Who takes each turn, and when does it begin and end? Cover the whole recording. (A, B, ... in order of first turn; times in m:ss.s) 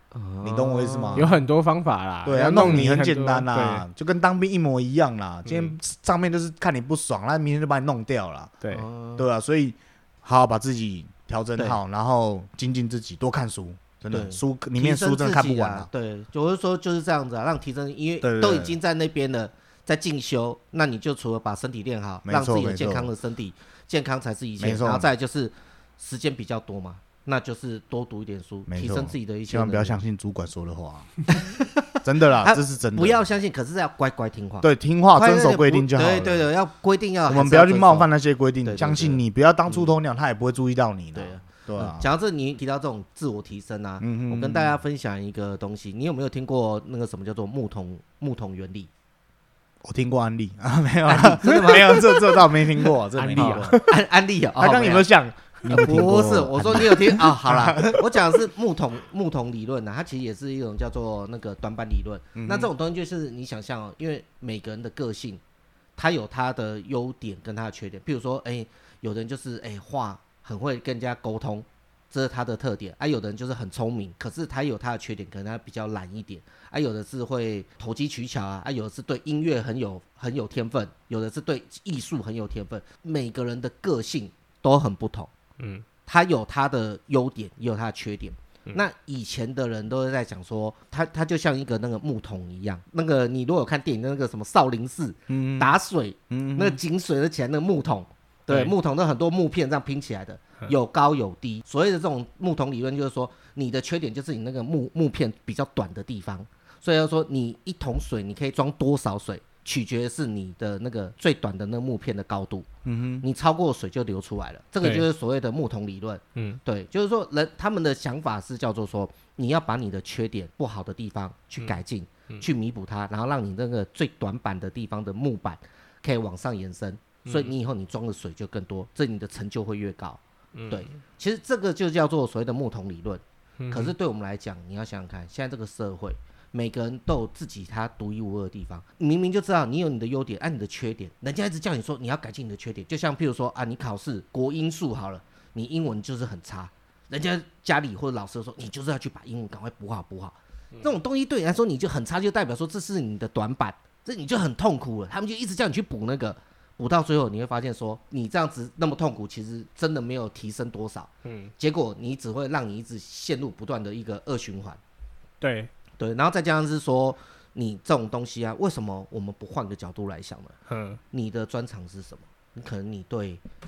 0:00.1-0:01.4 A
0:00.4-0:01.3 B
0:01.1-0:03.9 C
0:02.2-0:08.5 B
0:02.6-0:02.8 A
0:05.4-0:05.8 C
0:08.7-0:09.2 A
0:09.2-0:15.9 B
0:14.1-0:30.0 A
0:18.2-0:18.7 B
0:22.2-0:23.1 B
0:24.6-0:25.1 B
0:28.7-0:31.1 B
0:31.3-0:38.1 A
0:32.0-0:33.2 B
0:34.6-0:36.5 B
0:37.3-0:42.1 B
0:38.6-0:39.9 A
0:41.1-0:48.9 A
0:44.0-0:44.8 B
0:49.8-0:53.9 B
0:51.1-0:55.1 A
0:53.2-0:53.7 C
0:54.6-0:58.0 B
0:55.7-1:05.4 A
1:02.3-1:02.7 B
1:06.0-1:25.3 A
1:25.6-1:25.9 C
1:26.0-1:52.7 A
1:35.3-1:35.7 B
1:36.3-1:36.8 B
1:38.5-1:38.7 C
1:52.8-1:53.2 B
1:53.2-2:44.8 A
1:54.8-1:55.1 C
2:07.2-2:07.6 C
2:10.6-2:10.9 C
2:13.6-2:13.9 C
2:41.2-2:41.5 C
2:45.4-2:45.7 C
2:46.0-2:50.6 A
2:50.7-2:51.0 C
2:51.1-2:53.4 A